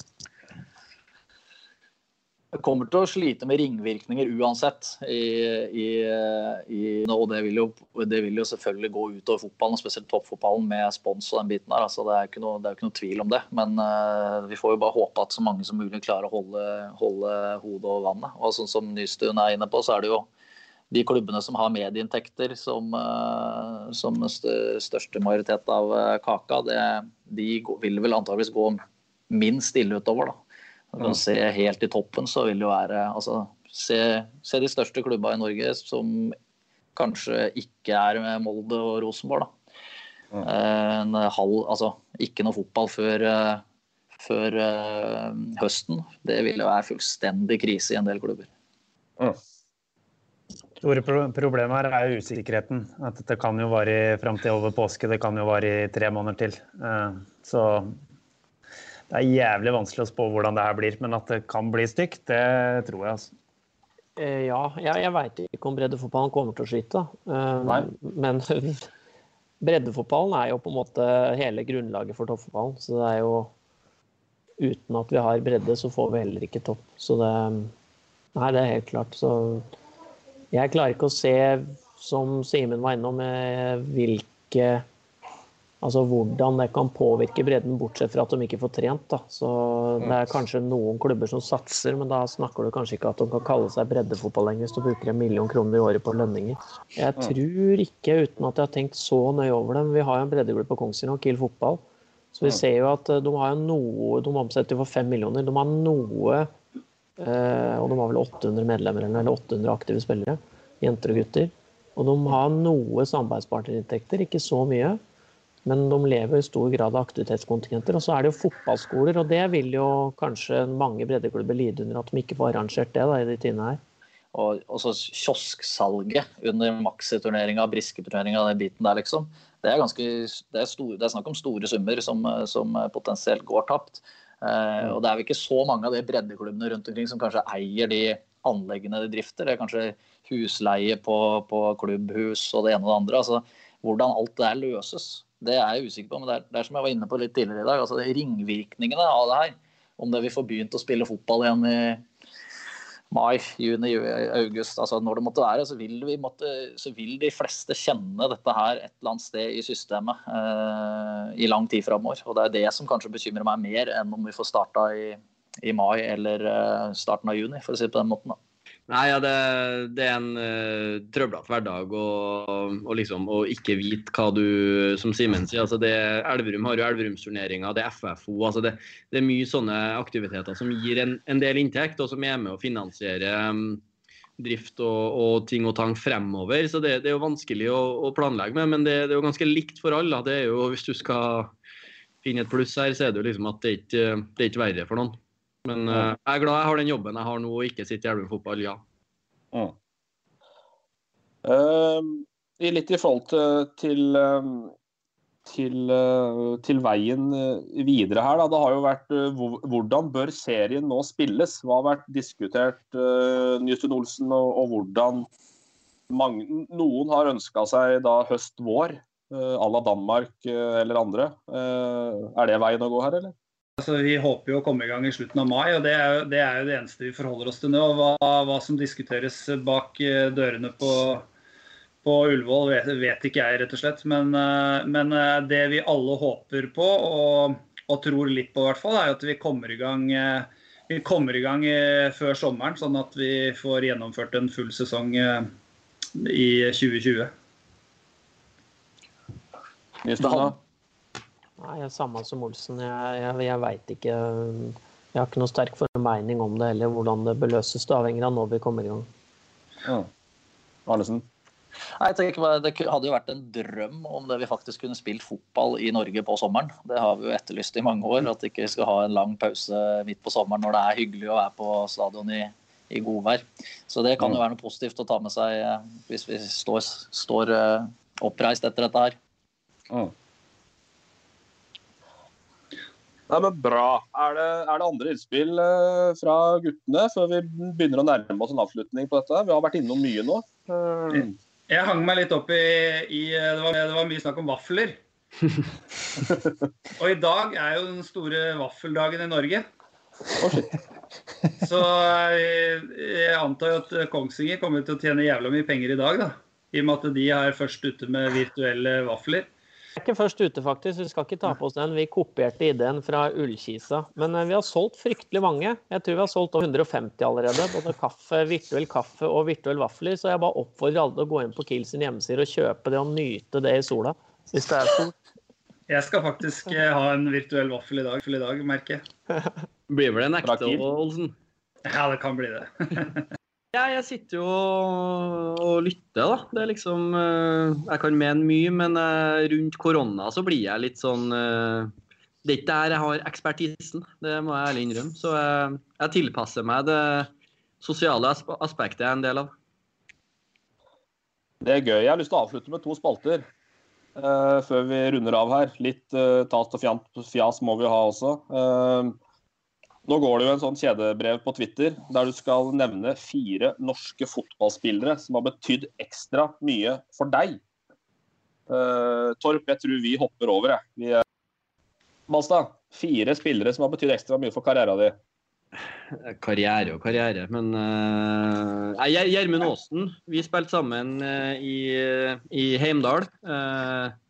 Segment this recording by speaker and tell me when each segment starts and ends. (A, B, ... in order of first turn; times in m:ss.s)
0:02.5-0:20.3 A
0:20.9-0:30.4 A
0:30.9-0:36.4 A
0:36.9-0:39.5 A
0:40.4-0:43.6 A
0:44.2-0:48.5 A
0:50.8-0:58.0 B
0:59.1-1:03.3 B
1:04.2-1:08.9 C
1:09.6-1:13.5 C
1:14.6-1:17.7 C
1:18.4-1:19.7 C
1:20.5-1:24.8 C
1:25.8-1:41.8 C
1:42.3-1:46.5 C
1:47.2-1:55.0 C
1:55.6-2:03.8 C
2:04.3-2:32.0 A
2:33.1-2:48.4 A
2:48.9-3:03.8 D
3:04.4-3:11.5 D
3:12.2-3:18.8 D
3:21.4-3:24.7 E
3:25.4-3:35.3 E
3:36.1-3:43.3 E
3:43.8-3:51.3 F
3:52.0-4:05.5 F
4:06.2-4:07.3 F
4:10.0-4:10.6 E
4:11.6-4:19.1 C
4:19.8-4:20.1 E
4:20.9-4:21.2 E
4:22.0-4:39.2 A
4:43.3-4:51.4 E
4:51.1-4:55.0 F
4:56.3-4:56.6 E
4:57.0-4:59.6 F
5:00.4-5:00.7 E
5:01.6-5:09.5 F
5:10.0-5:25.2 C
5:25.9-5:29.0 F
5:29.9-5:31.3 D
5:30.4-5:30.8 E
5:31.9-5:33.2 F
5:33.7-5:41.9 D
5:42.4-5:47.3 D
5:47.8-5:49.5 D
5:51.6-5:53.5 E
5:54.2-5:59.2 E
6:00.0-6:07.6 E
6:08.7-6:11.2 E
6:12.3-6:15.2 E
6:16.1-6:24.1 D